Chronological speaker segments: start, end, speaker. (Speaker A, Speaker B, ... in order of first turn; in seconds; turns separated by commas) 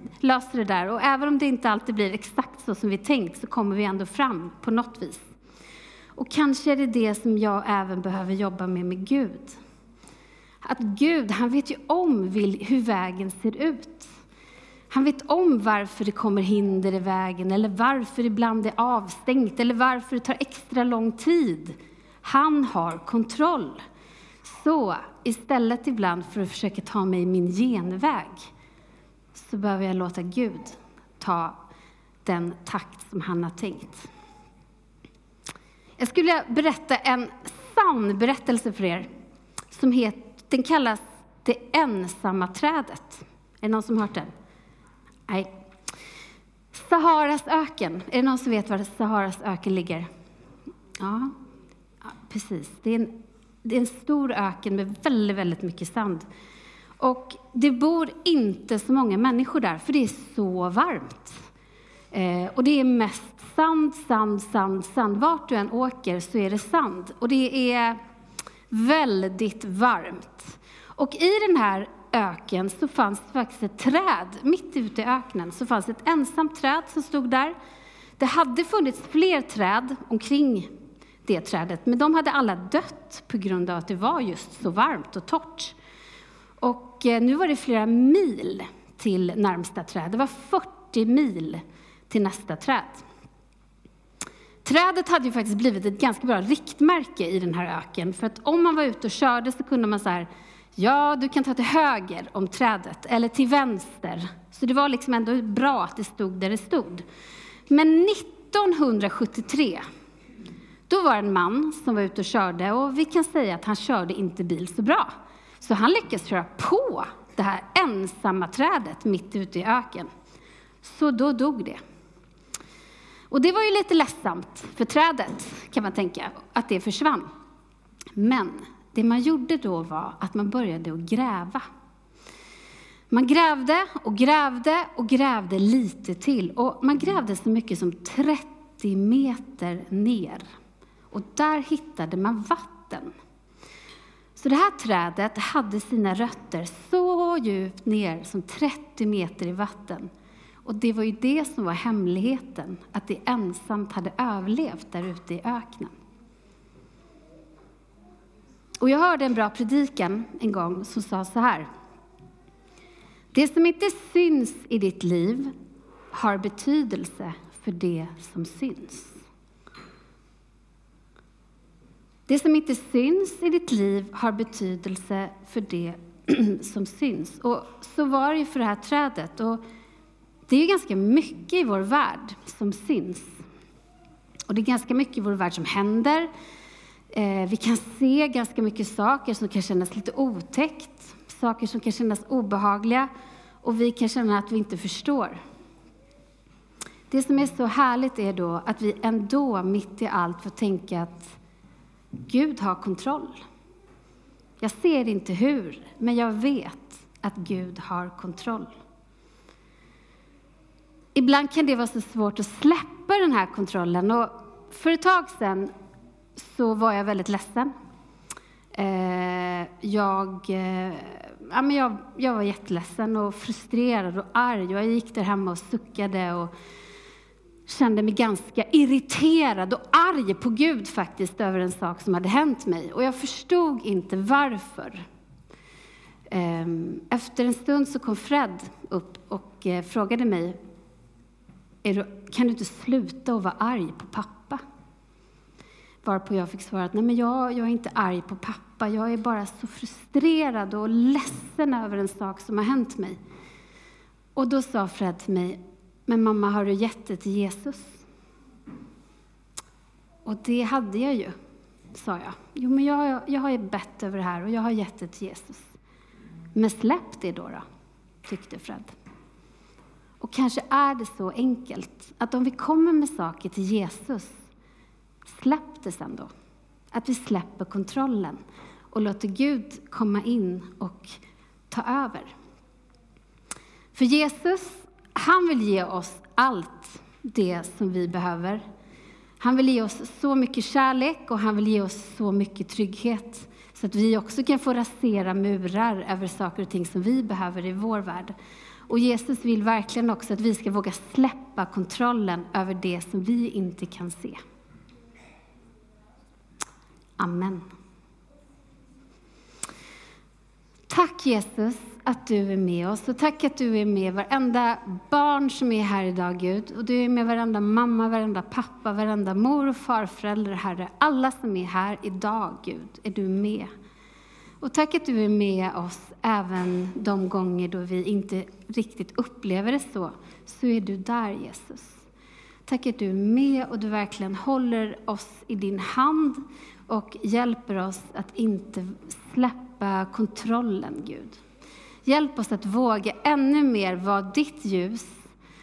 Speaker A: 0.2-5.2, Speaker A: 6.2-9.6, Speaker A: 10.6-14.1, Speaker A: 14.9-23.8, Speaker A: 24.4-28.5, Speaker A: 29.3-31.6, Speaker A: 32.2-34.1, Speaker A: 36.0-39.1, Speaker A: 39.7-44.3, Speaker A: 46.7-50.1, Speaker A: 51.0-51.4, Speaker A: 52.0-56.3, Speaker A: 57.0-61.5, Speaker A: 62.1-68.0, Speaker A: 68.7-77.5, Speaker A: 78.2-80.7, Speaker A: 81.3-85.8, Speaker A: 86.6-93.0, Speaker A: 94.6-107.0, Speaker A: 107.7-109.8, Speaker A: 110.9-120.1, Speaker A: 120.8-121.8, Speaker A: 123.3-127.3, Speaker A: 128.2-131.6, Speaker A: 133.1-140.5, Speaker A: 141.1-143.1, Speaker A: 144.4-150.1, Speaker A: 150.7-155.9, Speaker A: 158.8-161.7, Speaker A: 163.3-165.5, Speaker A: 166.1-169.2, Speaker A: 172.3-179.6, Speaker A: 180.5-183.3, Speaker A: 184.5-186.3, Speaker A: 187.1-193.1, Speaker A: 193.6-195.4, Speaker A: 197.1-201.4, Speaker A: 202.2-203.4, Speaker A: 204.6-208.7, Speaker A: 211.2-215.7, Speaker A: 216.4-217.7, Speaker A: 218.7-226.5, Speaker A: 227.7-235.1, Speaker A: 236.3-240.6, Speaker A: 241.8-244.6, Speaker A: 246.0-253.2, Speaker A: 254.4-258.0, Speaker A: 260.2-261.4, Speaker A: 261.9-265.8, Speaker A: 266.5-267.6, Speaker A: 268.2-268.9, Speaker A: 270.2-274.4, Speaker A: 275.3-276.3, Speaker A: 276.9-278.4, Speaker A: 278.9-282.4, Speaker A: 283.9-288.6, Speaker A: 289.4-298.4, Speaker A: 298.9-304.4, Speaker A: 307.2-307.7, Speaker A: 310.9-323.7, Speaker A: 324.6-332.1, Speaker A: 332.7-341.4, Speaker A: 342.1-345.3